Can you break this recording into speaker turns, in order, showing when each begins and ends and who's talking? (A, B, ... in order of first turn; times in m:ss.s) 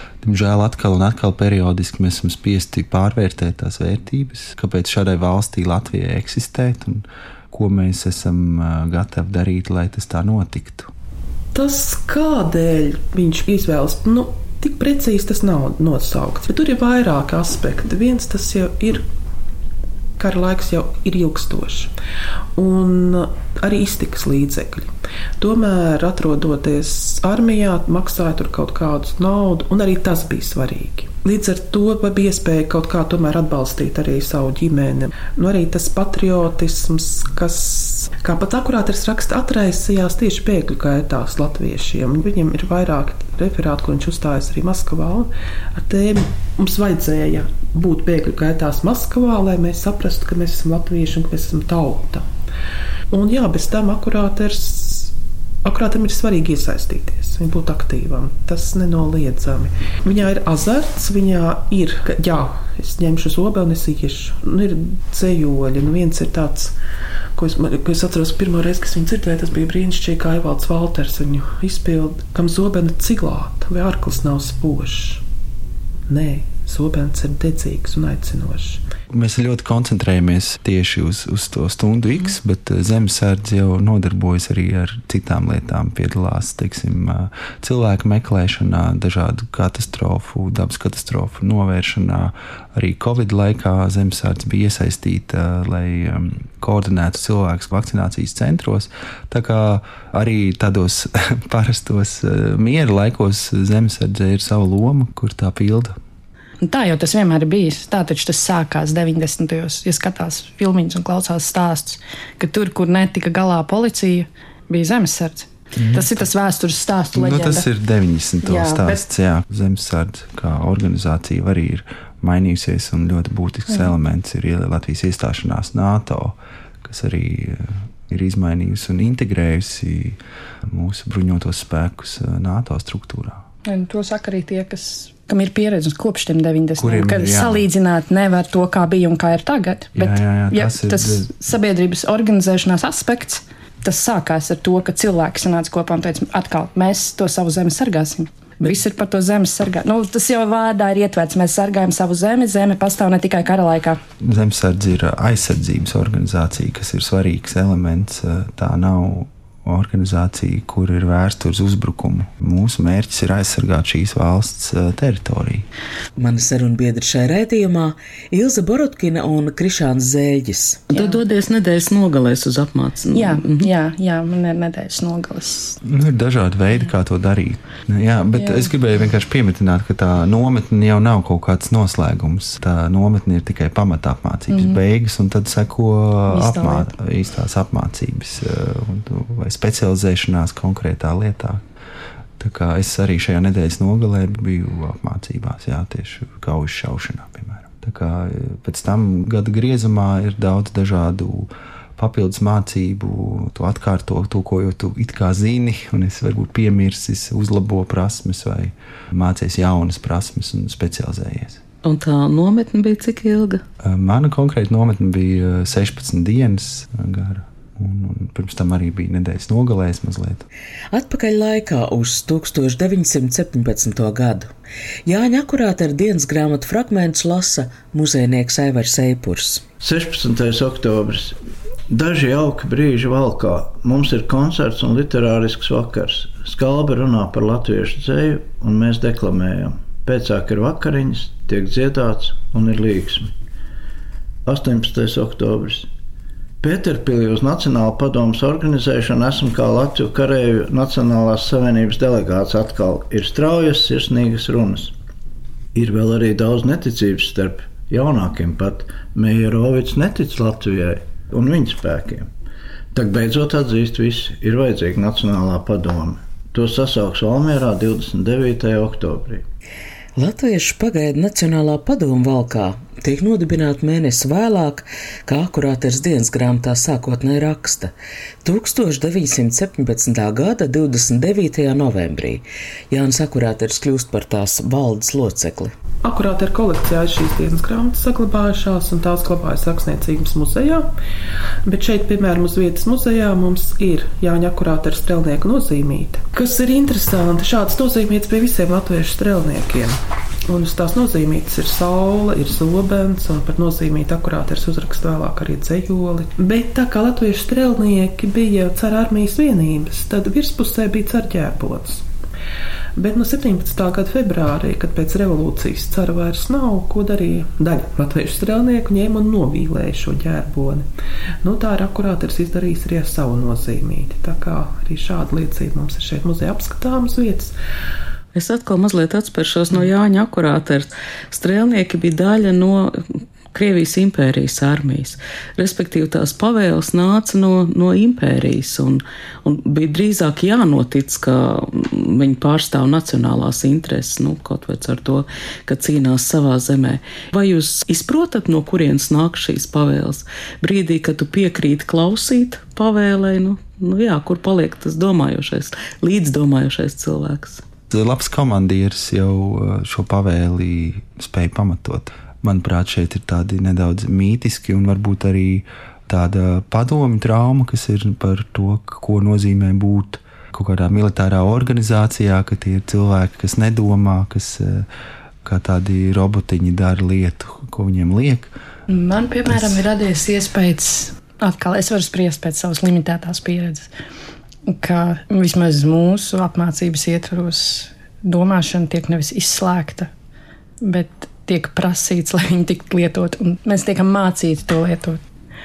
0:00.2-0:10.9 A
0:11.5-0:19.1 B
0:20.2-0:21.9 B
0:22.5-0:52.3 B
0:53.1-1:06.7 B
1:07.4-1:15.2 B
1:16.1-1:18.8 B
1:19.1-1:45.9 A
1:46.6-1:57.7 C
1:55.7-1:56.1 A
1:57.1-2:13.4 A
1:58.4-1:59.0 C
2:13.6-2:34.0 C
2:16.8-2:17.6 A
2:19.9-2:21.3 A
2:34.2-2:45.7 A
2:46.2-2:50.9 D
2:50.9-2:51.2 C
2:50.9-2:53.7 E
2:53.1-2:55.8 C
2:55.8-3:11.6 A
2:58.4-2:58.7 C
3:04.5-3:04.8 C
3:06.3-3:06.9 C
3:12.4-3:31.6 A
3:31.8-3:33.6 E
3:33.8-3:40.4 A
3:40.9-3:44.5 D
3:45.0-3:49.6 D
3:49.8-3:51.4 F
3:51.9-4:03.3 F
4:04.4-4:05.9 F
4:06.6-4:14.9 F
4:15.7-4:22.3 F
4:22.9-4:29.4 F
4:30.2-4:37.9 D
4:38.4-4:45.7 D
4:46.0-4:50.9 B
4:51.6-5:12.0 B
5:13.0-5:20.9 B
5:21.4-5:27.5 B
5:28.3-5:57.6 E
5:57.9-6:14.9 A
6:15.4-6:18.5 A
6:18.9-6:23.9 C
6:24.7-6:30.1 C
6:30.8-6:35.2 C